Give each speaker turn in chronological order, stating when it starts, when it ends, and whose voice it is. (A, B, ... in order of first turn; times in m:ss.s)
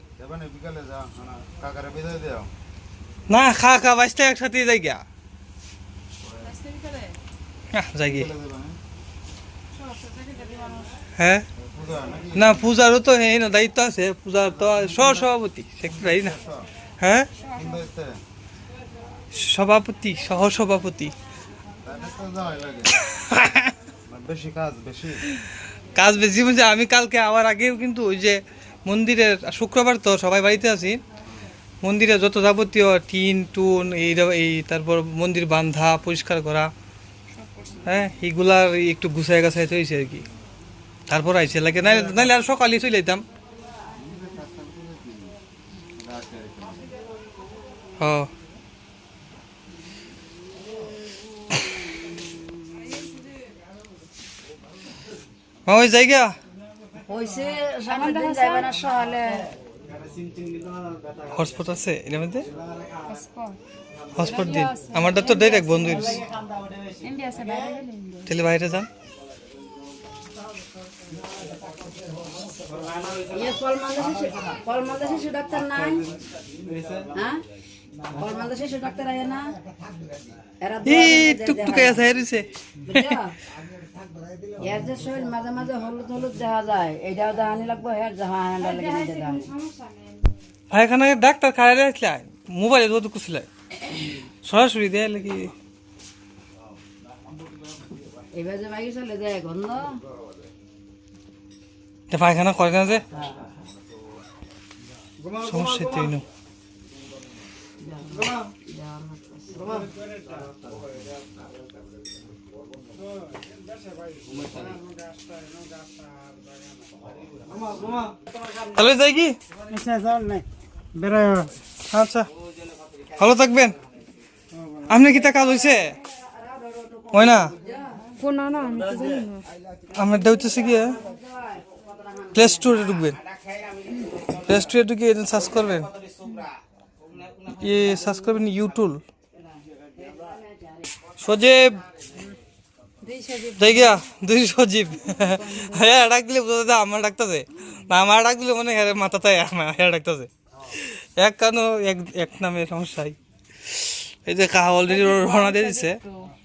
0:00.2-0:02.5 A
0:03.3-0:05.0 B
0:06.2-0:06.6 A
0:06.6-0:07.1 C
0:07.7-0:08.3 B
0:08.0-0:08.8 A
0:09.7-0:10.9 C
0:11.2-0:11.4 B
0:11.6-0:12.6 A
0:12.3-0:16.4 B
0:14.6-0:15.3 A
0:15.9-0:16.7 A
0:17.0-0:17.3 B
0:17.4-0:17.8 C
0:17.5-0:18.2 A
0:19.3-0:21.1 B
0:21.8-0:23.0 A
0:23.3-0:23.7 B
0:24.1-0:25.2 A
0:25.9-0:31.0 B
0:31.8-0:36.7 B
0:37.4-0:37.8 C
0:37.8-0:40.2 B
0:41.1-0:43.2 B
0:41.8-0:42.3 A
0:44.0-0:45.4 A
0:45.9-0:46.9 A
0:48.0-0:48.3 B
0:55.6-0:56.4 B
0:57.0-0:59.5 D
0:57.9-0:58.8 C
1:01.2-1:02.5 B
1:02.9-1:03.6 C
1:04.1-1:06.2 B
1:04.2-1:06.0 C
1:06.9-1:08.3 C
1:08.2-1:08.9 B
1:13.3-1:16.1 D
1:17.1-1:17.4 D
1:18.1-1:19.5 D
1:20.6-1:22.1 D
1:20.8-1:23.1 B
1:22.9-1:23.4 D
1:24.6-1:29.5 D
1:28.6-1:30.4 C
1:30.7-1:33.5 B
1:34.4-1:35.5 B
1:38.3-1:40.0 D
1:42.1-1:43.0 B
1:43.1-1:43.5 D
1:45.4-1:46.2 B
1:47.8-1:49.9 D
1:54.5-1:54.8 A
1:57.7-1:58.0 A
1:58.6-1:59.3 B
2:01.9-2:02.3 B
2:03.2-2:03.8 B
2:04.9-2:06.0 B
2:05.8-2:08.0 D
2:07.1-2:07.5 B
2:08.1-2:09.5 C
2:09.9-2:11.0 B
2:10.6-2:12.6 D
2:12.3-2:13.2 B
2:13.8-2:14.2 C
2:14.4-2:15.9 B
2:17.5-2:19.0 B
2:20.1-2:20.8 D
2:21.2-2:21.8 B
2:23.0-2:24.1 C
2:23.6-2:36.0 B
2:25.1-2:25.9 C
2:34.8-2:36.3 C